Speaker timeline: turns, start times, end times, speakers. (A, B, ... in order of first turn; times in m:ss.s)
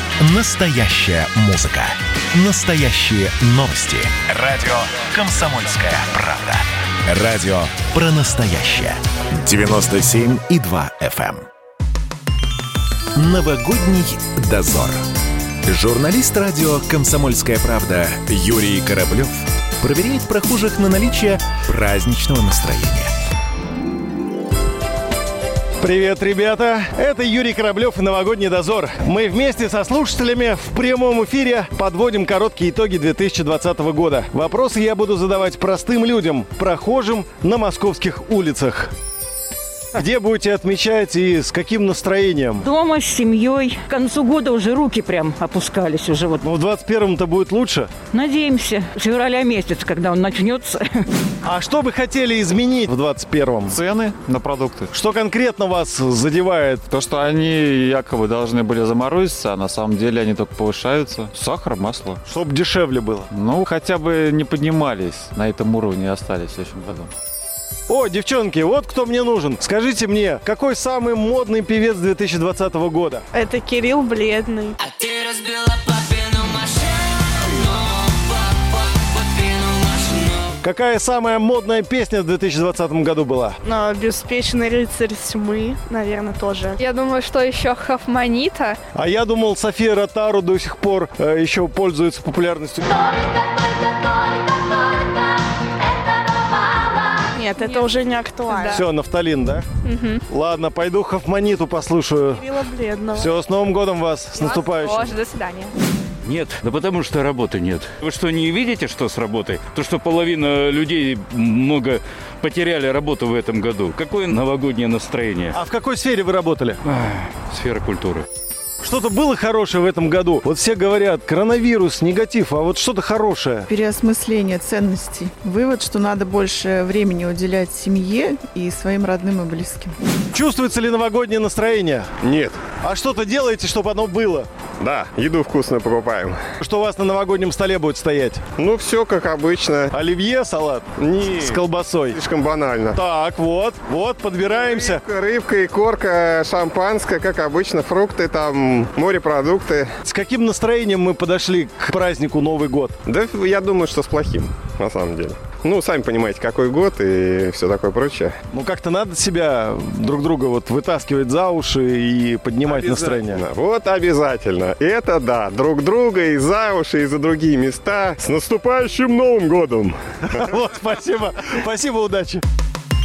0:00.2-0:11.4 A
0:13.2-0:15.0 A
0:15.6-0:23.1 A
0:25.8-0:38.9 B
0:39.9-0:42.6 B
0:42.6-0:46.4 C
0:46.4-0:47.9 B
0:48.1-0:51.0 C
0:51.4-0:53.8 B
0:53.7-0:54.9 D
0:54.9-0:56.9 B
0:56.9-1:02.2 D
1:02.2-1:03.3 B
1:03.3-1:07.1 D
1:07.9-1:13.2 B
1:13.3-1:14.8 E
1:14.9-1:20.4 F
1:20.6-1:23.6 B
1:23.6-1:26.8 E
1:26.8-1:28.8 G
1:29.0-1:33.1 B
1:37.3-1:38.7 E
1:37.6-1:37.9 G
1:38.6-1:38.8 G
1:38.7-1:39.6 B
1:39.8-1:40.2 G
1:40.3-1:42.5 B
1:42.3-1:43.3 E
1:43.2-1:45.1 B
1:44.5-1:45.7 G
1:46.2-1:55.6 H
1:55.5-1:56.8 B
1:56.8-1:58.2 H
1:58.8-2:03.7 B
2:03.7-2:09.9 I
2:10.3-2:12.2 B
2:12.2-2:12.7 J
2:12.7-2:14.5 B
2:14.8-2:16.4 J
2:16.6-2:18.5 B
2:18.6-2:19.9 J
2:19.9-2:22.2 B
2:21.0-2:23.0 J
2:23.0-2:25.0 B
2:24.4-2:29.9 J
2:30.0-2:33.0 B
2:33.0-2:38.3 J
2:38.5-2:43.4 B
2:42.7-2:50.6 J
2:50.4-2:52.4 B